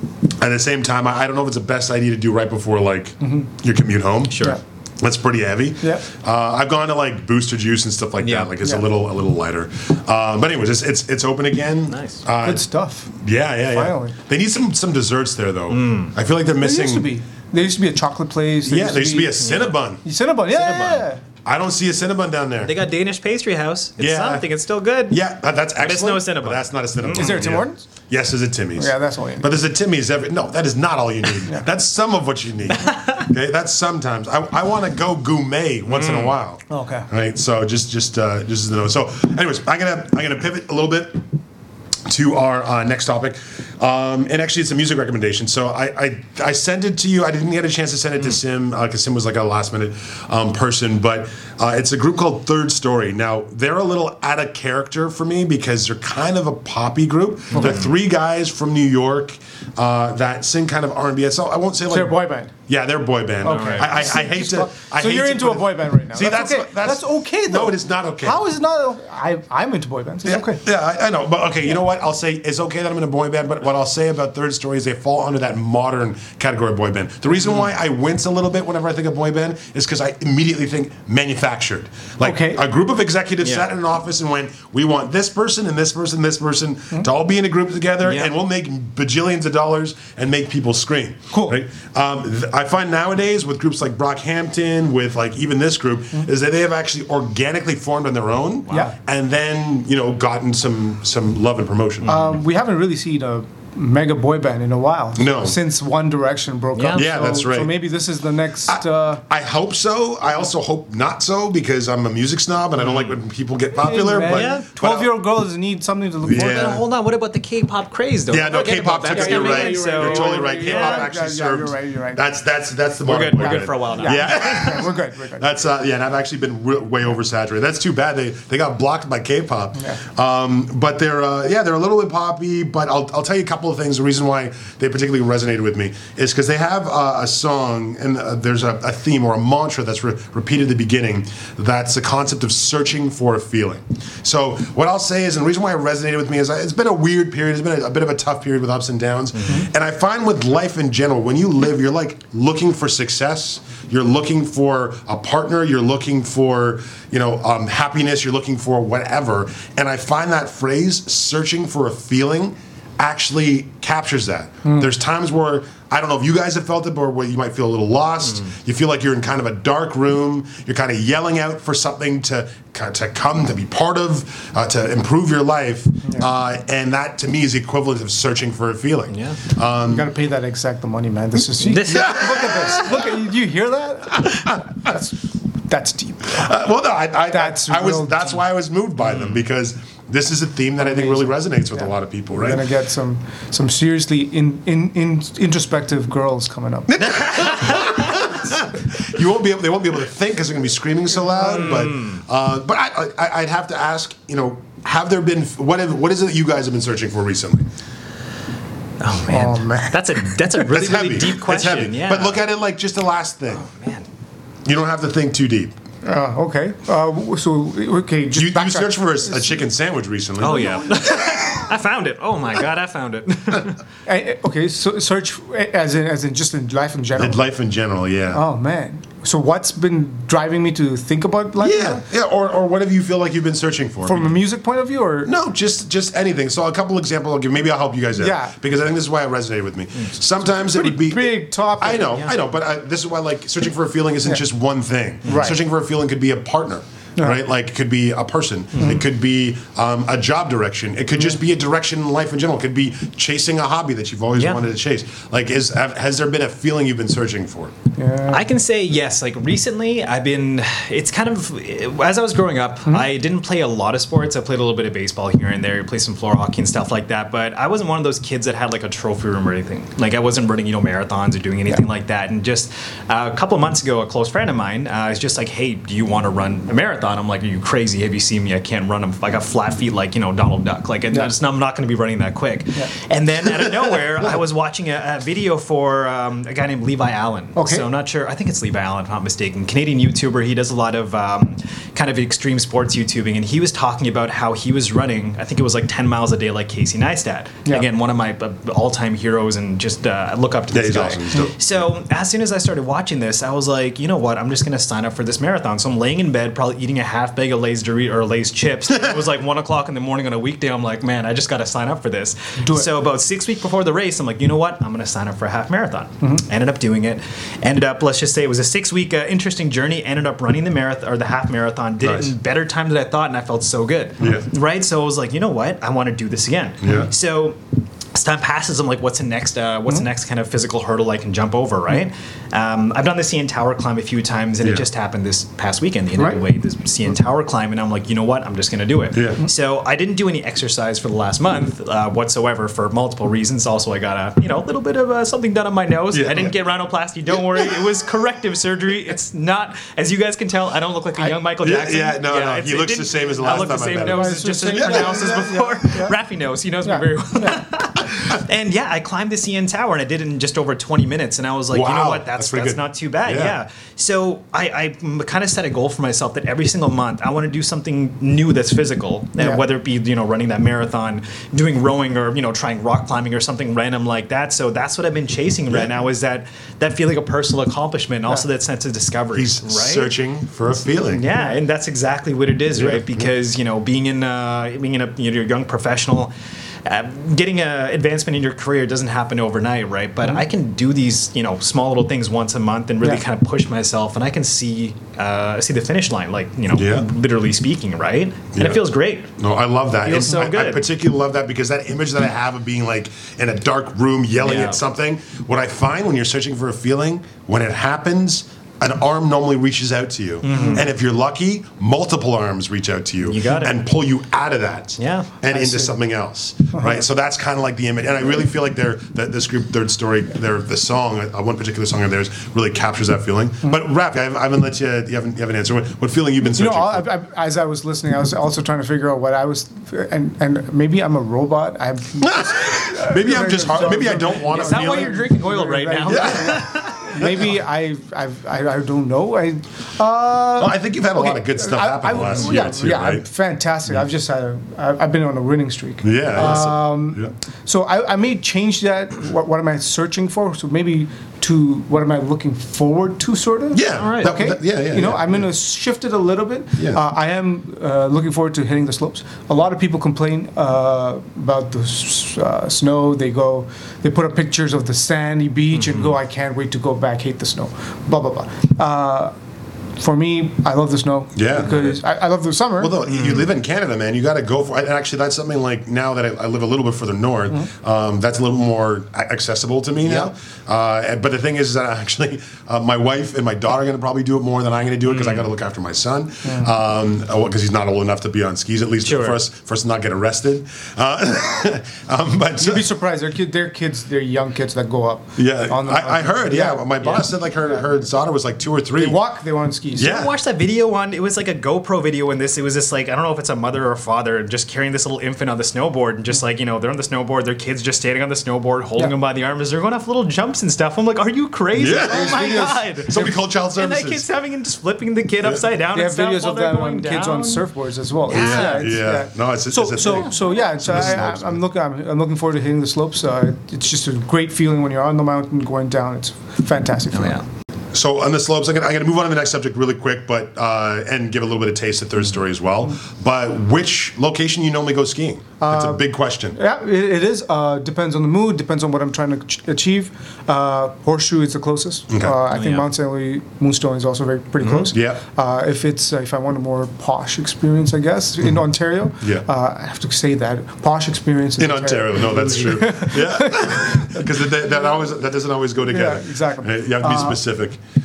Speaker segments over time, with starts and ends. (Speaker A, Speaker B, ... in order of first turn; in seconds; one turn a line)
Speaker A: 0.4-17.1
Speaker B: 3.2-3.5
Speaker C: 4.3-4.6
Speaker C: 8.2-8.5
Speaker C: 11.9-12.2
Speaker B: 12.4-13.1
Speaker B: 13.7-14.1
Speaker C: 15.7-16.1
Speaker B: 16.6-19.4
Speaker A: 18.6-20.0
Speaker C: 19.4-19.8
Speaker B: 20.0-21.2
Speaker C: 20.4-21.1
Speaker A: 21.4-22.7
Speaker C: 22.6-25.2
Speaker A: 24.0-24.5
Speaker A: 25.1-41.2
Speaker C: 25.8-27.5
Speaker B: 27.1-27.9
Speaker B: 28.8-29.5
Speaker C: 32.8-33.3
Speaker C: 35.9-36.4
Speaker B: 36.7-37.1
Speaker A: 42.0-68.4
Speaker C: 57.5-57.9
Speaker B: 61.9-62.5
Speaker B: 63.4-70.6
Speaker C: 63.5-63.9
Speaker A: 70.2-102.1
Speaker B: 82.2-82.6
Speaker C: 88.0-88.3
Speaker B: 91.3-91.6
Speaker C: 102.0-102.4
Speaker B: 102.0-109.2
Speaker A: 105.2-105.6
Speaker C: 106.7-107.0
Speaker A: 106.9-107.8
Speaker A: 108.6-115.1
Speaker C: 112.8-113.2
Speaker B: 113.8-116.8
Speaker C: 114.2-114.7
Speaker A: 116.2-116.8
Speaker C: 116.3-121.1
Speaker A: 118.3-180.1
Speaker B: 118.6-122.2
Speaker C: 123.0-124.8
Speaker B: 123.5-125.6
Speaker B: 164.6-164.9
Speaker C: 179.1-179.4
Speaker B: 179.8-185.2
Speaker C: 181.7-182.0
Speaker A: 181.8-183.1
Speaker A: 184.2-184.5
Speaker B: 185.7-186.5
Speaker A: 186.3-192.7
Speaker B: 187.3-188.4
Speaker C: 189.1-189.4
Speaker B: 190.8-197.0
Speaker A: 196.9-207.7
Speaker C: 197.3-198.0
Speaker B: 201.2-201.8
Speaker C: 201.5-202.2
Speaker C: 209.0-212.4
Speaker B: 209.3-210.3
Speaker A: 210.7-213.7
Speaker C: 213.6-214.1
Speaker A: 214.6-215.8
Speaker B: 216.0-219.6
Speaker A: 218.3-221.7
Speaker C: 220.4-223.8
Speaker B: 224.1-227.4
Speaker A: 227.2-228.4
Speaker B: 228.3-232.0
Speaker A: 231.6-234.4
Speaker B: 234.0-235.3
Speaker A: 235.2-257.7
Speaker B: 238.2-238.5
Speaker B: 240.6-242.2
Speaker B: 245.2-245.6
Speaker C: 245.3-245.5
Speaker B: 248.8-249.0
Speaker C: 254.3-254.6
Speaker B: 258.0-258.4
Speaker C: 258.3-327.6
Speaker A: 283.6-283.9
Speaker B: 287.6-287.9
Speaker A: 300.7-301.6
Speaker B: 312.6-312.9
Speaker A: 322.0-322.3
Speaker A: 324.2-324.5
Speaker A: 326.8-327.1
Speaker C: 328.1-380.1
Speaker A: 339.1-339.4
Speaker A: 346.1-346.5
Speaker A: 347.3-347.7
Speaker A: 351.6-355.5
Speaker B: 353.4-356.1
Speaker B: 356.8-357.7
Speaker A: 361.7-363.6
Speaker A: 379.3-381.3
Speaker C: 381.0-386.3
Speaker A: 382.7-383.3
Speaker C: 386.8-399.3
Speaker A: 396.7-397.1
Speaker A: 398.6-398.8
Speaker A: 399.4-427.1
Speaker C: 400.0-400.9
Speaker C: 404.4-404.8
Speaker C: 410.4-410.9
Speaker B: 410.5-410.8
Speaker C: 413.2-413.8
Speaker C: 415.0-415.3
Speaker B: 415.5-415.9
Speaker B: 416.7-417.0
Speaker B: 426.4-469.3
Speaker A: 432.2-435.2
Speaker C: 434.5-437.0
Speaker A: 436.1-437.5
Speaker A: 440.6-443.2
Speaker A: 446.0-447.3
Speaker A: 453.7-455.5
Speaker C: 453.9-454.3
Speaker A: 456.8-457.0
Speaker C: 465.7-466.1
Speaker B: 470.0-473.0
Speaker A: 471.3-472.0
Speaker A: 472.8-492.8
Speaker C: 473.1-473.5
Speaker C: 485.1-485.5
Speaker C: 489.0-489.4
Speaker B: 492.6-496.9
Speaker A: 495.4-499.2
Speaker B: 498.9-500.1
Speaker A: 499.9-500.3
Speaker C: 500.0-517.6
Speaker A: 511.7-514.2
Speaker B: 512.0-513.3
Speaker B: 515.9-527.4
Speaker C: 518.3-518.9
Speaker A: 518.3-521.6
Speaker C: 527.1-527.4
Speaker A: 527.9-536.6
Speaker B: 535.6-554.5
Speaker A: 542.1-542.4
Speaker C: 542.5-542.8
Speaker C: 544.6-544.9
Speaker A: 544.9-545.2
Speaker A: 549.2-549.5
Speaker A: 551.6-557.8
Speaker B: 555.8-557.4